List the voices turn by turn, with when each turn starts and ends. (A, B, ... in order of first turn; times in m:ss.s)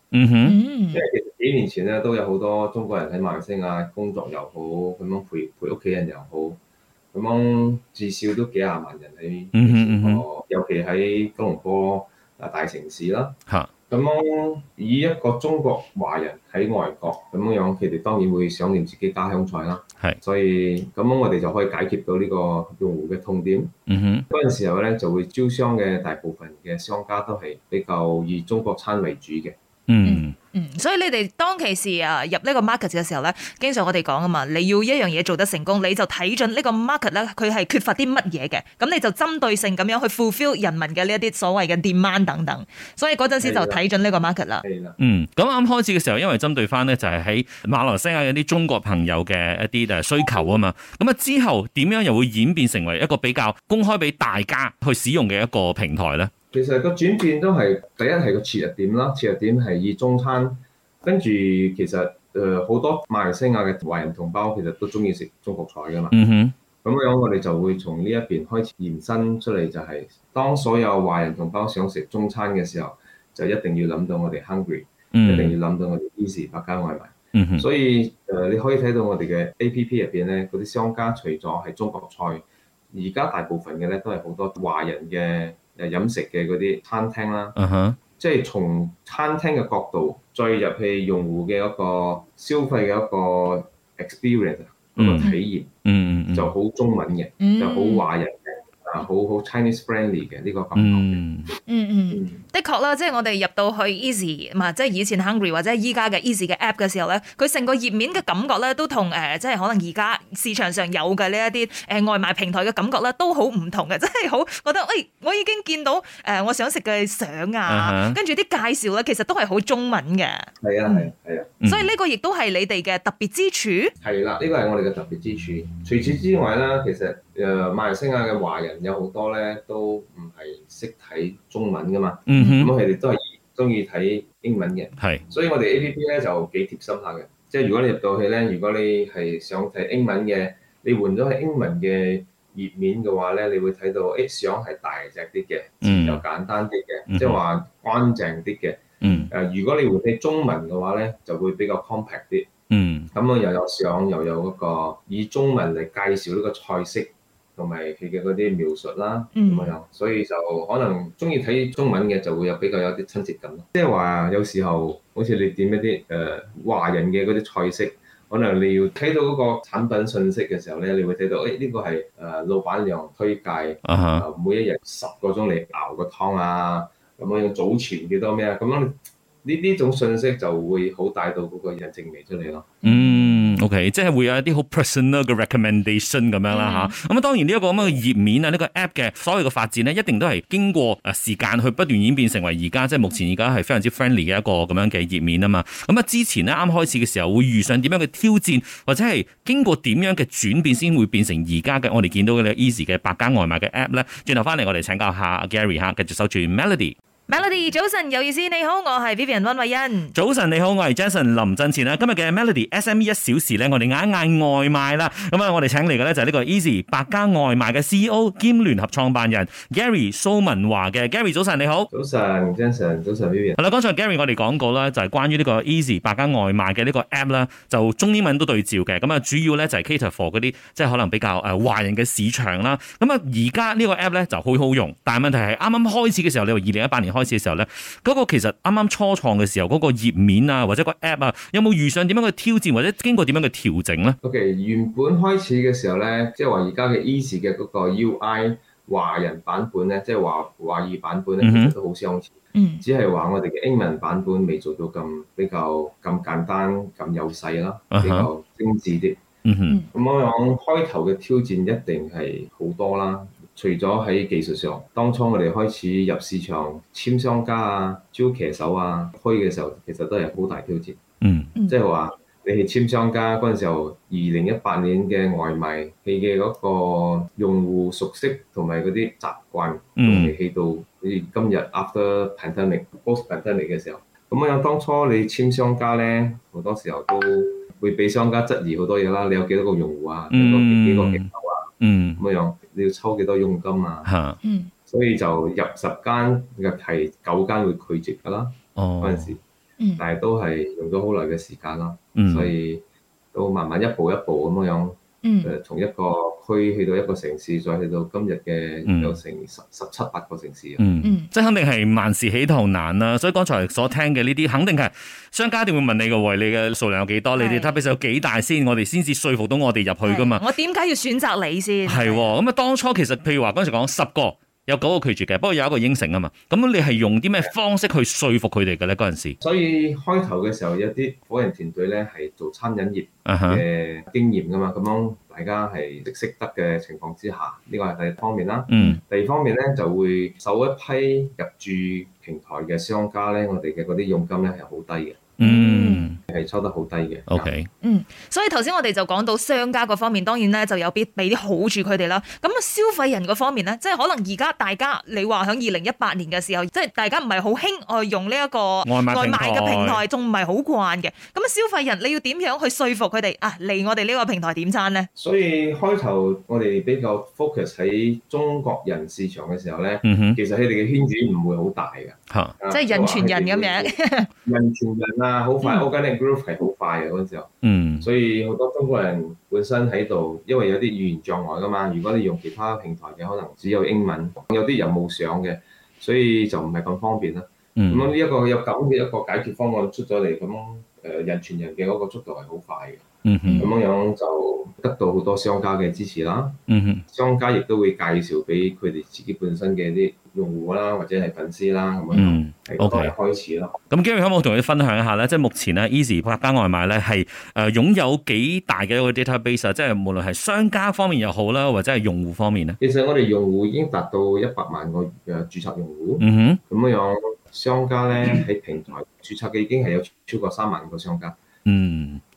0:00.1-0:00.6 A
0:00.4-0:01.0 B
0:00.9-0:06.6 C
0:07.1-0:13.4 C
0:09.5-0:10.2 A
0:13.9-0:23.7 C
0:23.9-0:24.3 A
0:24.3-0:29.6 C
0:29.9-0:30.3 A
0:30.0-0:44.6 B
0:43.4-0:43.8 C
0:44.6-0:45.0 C
0:45.0-0:56.3 A
0:56.5-1:06.2 C
1:06.1-1:06.6 A
1:06.8-1:27.6 C
1:15.1-1:15.6 A
1:17.4-1:17.7 A
1:27.6-1:28.0 A
1:28.2-1:35.7 C
1:35.0-1:35.3 A
1:35.8-1:36.5 A
1:36.3-1:41.2 C
1:37.4-1:38.1 B
1:40.8-1:41.5 A
1:41.7-2:01.1 B
1:42.1-1:42.4 C
1:57.7-1:58.2 A
2:00.6-2:01.5 C
2:01.6-2:01.9 A
2:01.7-2:03.9 B
2:04.0-2:32.5 C
2:12.3-2:12.7 A
2:12.4-2:12.7 B
2:15.0-2:15.2 A
2:25.8-2:26.2 A
2:27.1-2:27.4 A
2:29.0-2:29.3 B
2:32.7-2:33.1 A
2:33.1-3:02.7 C
2:39.4-2:39.8 B
2:53.8-2:54.2 A
3:02.8-3:03.6 B
3:02.8-3:27.0 A
3:06.5-3:06.9 B
3:27.3-3:30.2 B
3:30.1-3:41.9 A
3:41.9-3:43.6 C
3:43.6-4:04.2 A
4:04.2-4:19.2 C
4:11.4-4:11.7 A
4:12.6-4:12.8 B
4:17.9-4:18.3 A
4:19.4-4:19.8 A
4:19.9-4:31.0 C
4:31.2-4:31.5 A
4:31.7-4:54.1 C
4:40.0-4:40.4 A
4:50.3-4:51.3 A
4:51.8-4:52.2 A
4:54.0-4:54.4 A
4:54.4-4:54.7 B
4:54.9-4:59.4 C
4:58.8-4:59.3 A
5:00.0-5:10.8 C
5:02.2-5:02.5 A
5:05.2-5:05.5 B
5:08.8-5:09.2 A
5:10.8-5:20.4 A
5:11.0-5:11.3 B
5:17.4-5:17.8 B
5:20.0-5:22.3 B
5:21.9-5:29.4 A
5:29.4-5:45.4 C
5:33.3-5:33.6 A
5:38.7-5:39.0 A
5:45.4-5:46.2 A
5:45.4-5:46.1 B
5:46.3-5:47.5 C
5:47.3-5:47.7 A
5:47.8-6:05.1 B
5:58.8-6:00.0 A
6:05.2-6:33.0 C
6:10.0-6:10.4 A
6:12.7-6:14.3 B
6:17.6-6:18.1 A
6:27.8-6:28.1 A
6:33.2-6:33.6 A
6:33.5-6:33.8 B
6:33.6-6:43.8 C
6:36.7-6:37.0 A
6:42.1-6:43.1 A
6:43.9-6:52.8 A
6:52.8-7:01.4 C
6:56.2-6:56.6 A
7:01.7-7:02.2 A